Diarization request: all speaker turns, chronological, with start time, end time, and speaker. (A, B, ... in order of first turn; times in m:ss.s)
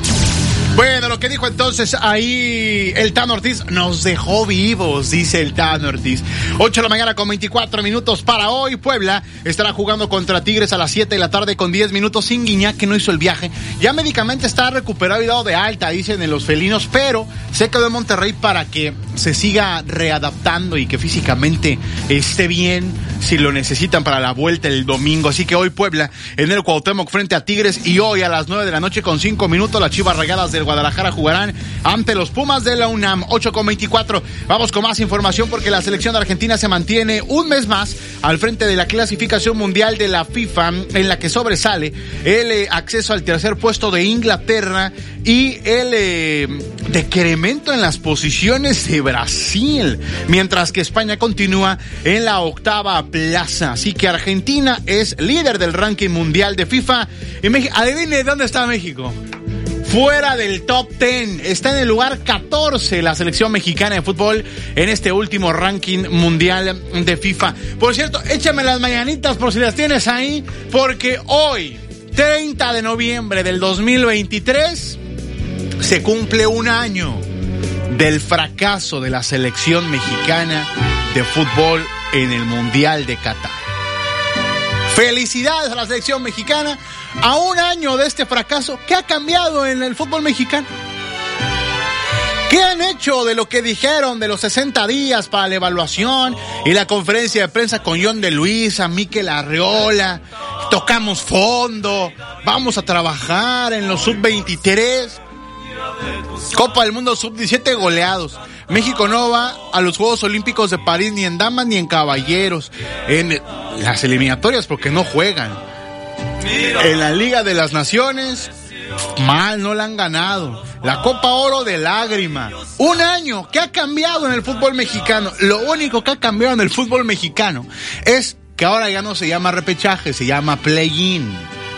0:00.8-0:59.2 A
0:59.8-1:15.0 A
1:15.8-1:17.2 A
1:17.9-1:23.6 A
1:24.9-1:30.7 A
1:32.5-1:45.2 A
1:46.5-1:55.6 A
1:56.8-1:58.5 A
1:59.2-2:11.5 A